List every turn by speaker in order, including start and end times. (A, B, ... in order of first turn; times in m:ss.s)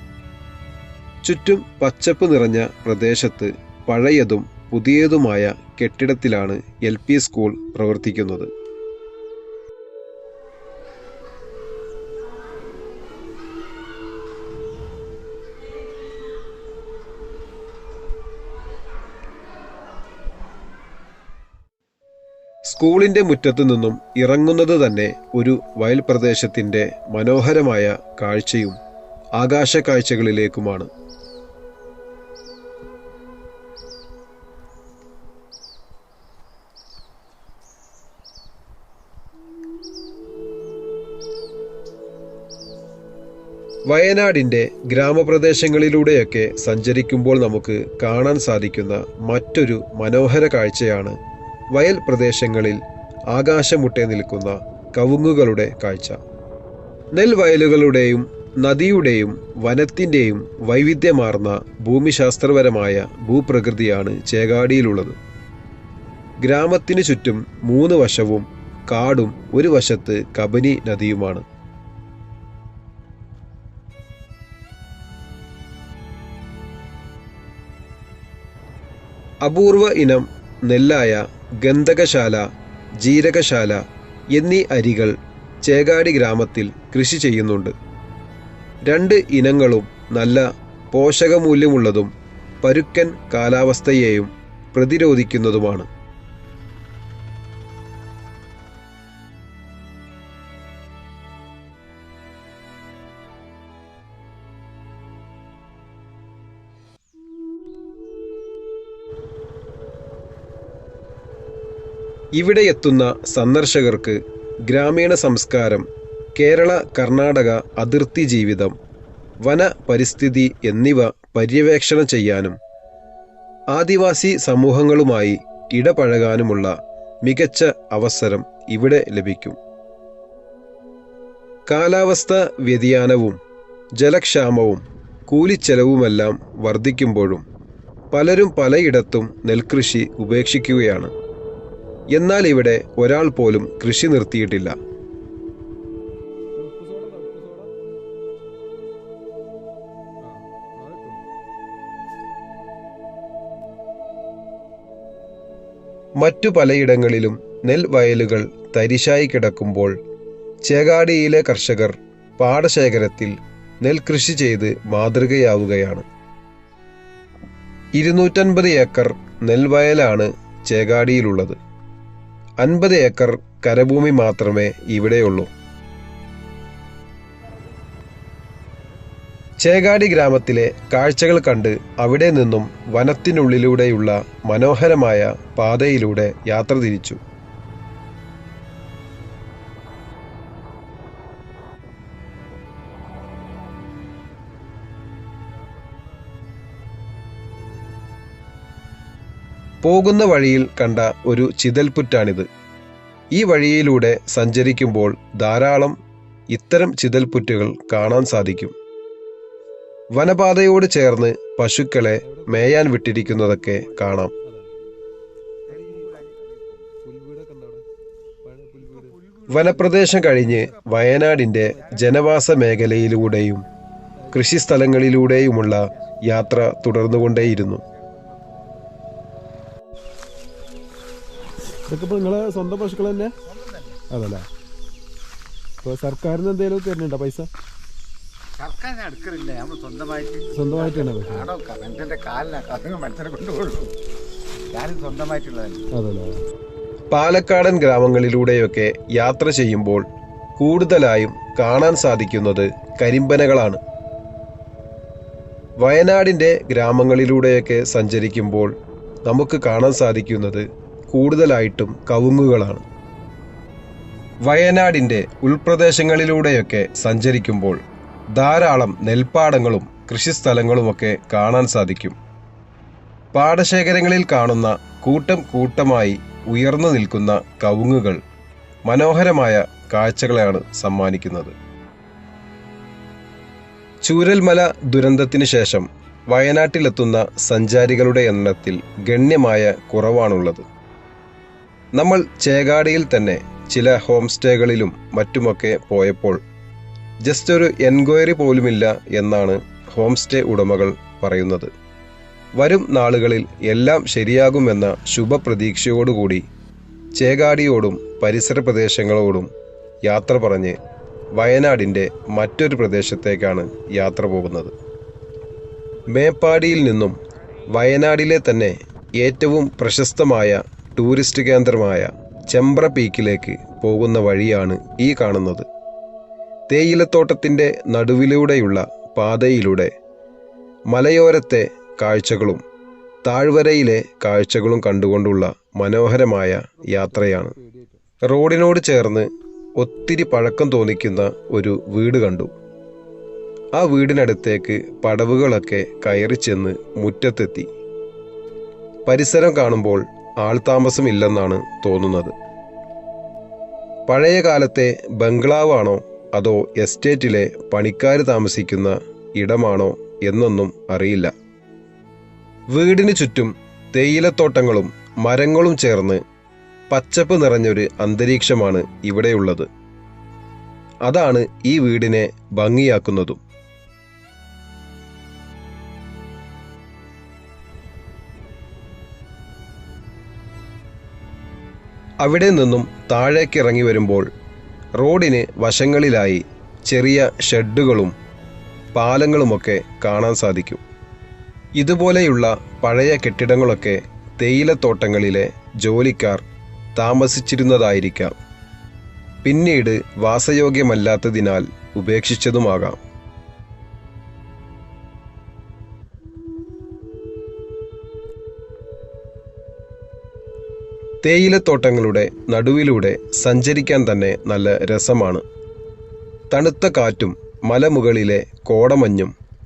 0:01.2-0:08.5 A
0:22.6-0:28.8 A
0:29.4-0:30.9 A
0:43.9-0:51.2 A
0:51.7-0:52.8 A
0:53.3-0:56.2 A
0:57.1-1:05.2 A
1:06.4-1:11.4 A
1:19.4-1:22.5 A
1:23.0-1:27.8 A
1:28.9-1:32.1 A
1:32.6-1:35.9 A
1:52.4-1:58.8 A
1:59.4-2:02.6 A
2:03.7-2:06.7 A
2:07.2-2:09.6 A
2:11.7-2:13.4 A
2:14.0-2:17.4 A
2:18.1-2:21.1 A
2:22.1-2:24.8 A
2:26.6-2:27.7 B
2:30.2-2:31.2 B
2:36.2-2:40.0 A
2:40.6-2:46.1 A
2:48.0-2:51.6 A
2:52.6-2:55.5 A
2:59.6-3:07.2 A
3:14.2-3:17.9 B
3:19.8-3:22.5 A
3:23.3-3:26.0 A
3:26.5-3:28.8 A
3:30.1-3:34.3 A
3:32.2-3:33.0 B
3:33.4-3:33.9 C
3:34.4-3:34.7 B
3:35.7-3:36.9 C
3:35.7-3:36.2 B
3:37.0-3:37.8 B
3:38.4-3:40.8 B
3:38.9-3:43.5 C
3:39.5-3:43.6 A
3:41.6-3:42.2 B
3:44.2-3:44.5 B
3:44.3-3:47.8 A
3:48.0-3:48.6 C
3:51.9-3:53.4 B
3:53.5-3:54.0 C
3:54.1-3:54.5 B
3:55.8-3:57.5 B
3:58.6-4:03.9 C
4:00.5-4:01.5 B
4:04.7-4:05.9 C
4:05.9-4:06.4 B
4:07.1-4:10.1 A
4:10.6-4:13.8 A
4:15.8-4:18.8 A
4:19.3-4:22.8 A
4:24.4-4:27.8 A
4:28.3-4:32.2 A
4:33.3-4:38.2 A
4:38.9-4:41.6 A
4:44.0-4:50.7 A
4:52.0-4:56.4 A
4:57.2-5:01.7 A
5:02.6-5:06.4 A
5:07.2-5:09.5 A
5:10.0-5:10.8 A
5:11.3-5:14.7 A
5:16.1-5:17.2 A
5:17.7-5:25.7 A
5:26.7-5:29.9 A
5:30.9-5:32.6 A
5:33.2-5:37.5 A
5:36.8-5:38.0 B
5:38.2-5:42.5 A
5:43.8-5:47.7 A
5:49.0-5:52.4 A
5:54.1-6:01.3 A
6:02.7-6:06.2 A
6:06.9-6:09.7 A
6:11.1-6:13.4 A
6:22.2-6:24.3 A
6:25.0-6:28.2 A
6:29.0-6:30.8 A
6:31.8-6:38.3 A
6:39.4-6:43.0 A
6:51.2-6:55.4 A
6:56.5-6:59.3 A